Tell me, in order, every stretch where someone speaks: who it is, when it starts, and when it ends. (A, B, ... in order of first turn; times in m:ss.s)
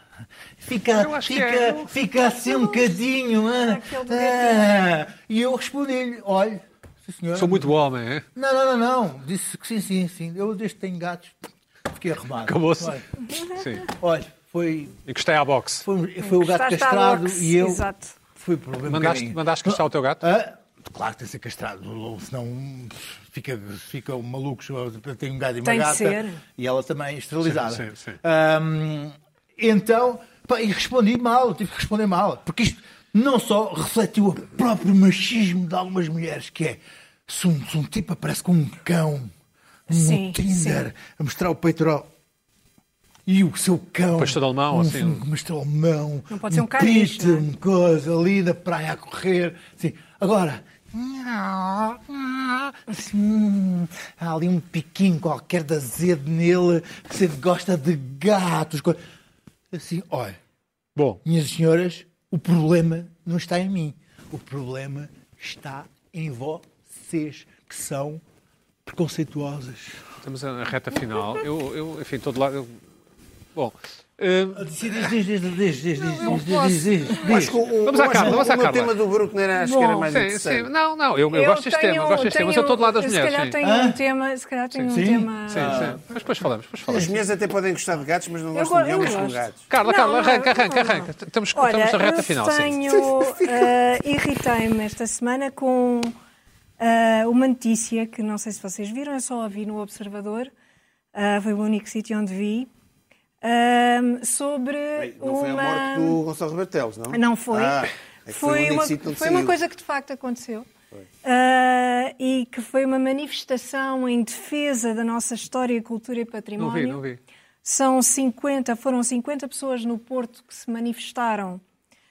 0:00.6-0:07.7 A
0:00.9-0:01.9 B
0:02.4-0:02.9 C
0:03.5-0:04.8 C
0:07.3-0:08.2 B
0:08.4-0:13.0 A
0:12.4-0:13.0 B
0:13.5-0:13.8 B
0:13.7-0:15.0 A
0:15.0-0:15.9 B
0:15.8-0:39.3 A
0:16.2-0:18.1 C
0:18.9-0:20.2 B
0:25.6-0:26.4 C
0:27.4-0:28.2 B
0:39.9-0:40.8 C
0:39.9-0:42.0 A
0:43.2-0:59.0 A
0:44.2-0:45.2 B
0:46.3-0:47.4 C
0:59.7-1:00.4 A
1:01.0-1:01.2 B
1:01.2-1:08.2 A
1:08.8-1:10.0 A
1:10.2-1:12.8 B
1:13.5-1:15.1 B
1:14.6-1:17.6 A
1:16.0-1:18.9 B
1:17.2-1:20.7 D
1:19.6-1:23.5 B
1:21.3-1:25.9 C
1:23.6-1:24.0 A
1:24.9-1:26.0 A
1:25.5-1:27.1 B
1:26.9-1:29.6 D
1:28.5-1:36.2 C
1:29.7-1:33.0 B
1:32.9-1:33.7 D
1:36.8-1:40.5 C
1:41.1-1:42.7 C
1:43.4-1:46.2 C
1:45.0-1:49.5 D
1:47.1-1:50.7 C
1:51.2-1:57.0 C
1:56.6-1:57.2 B
1:57.6-2:01.6 C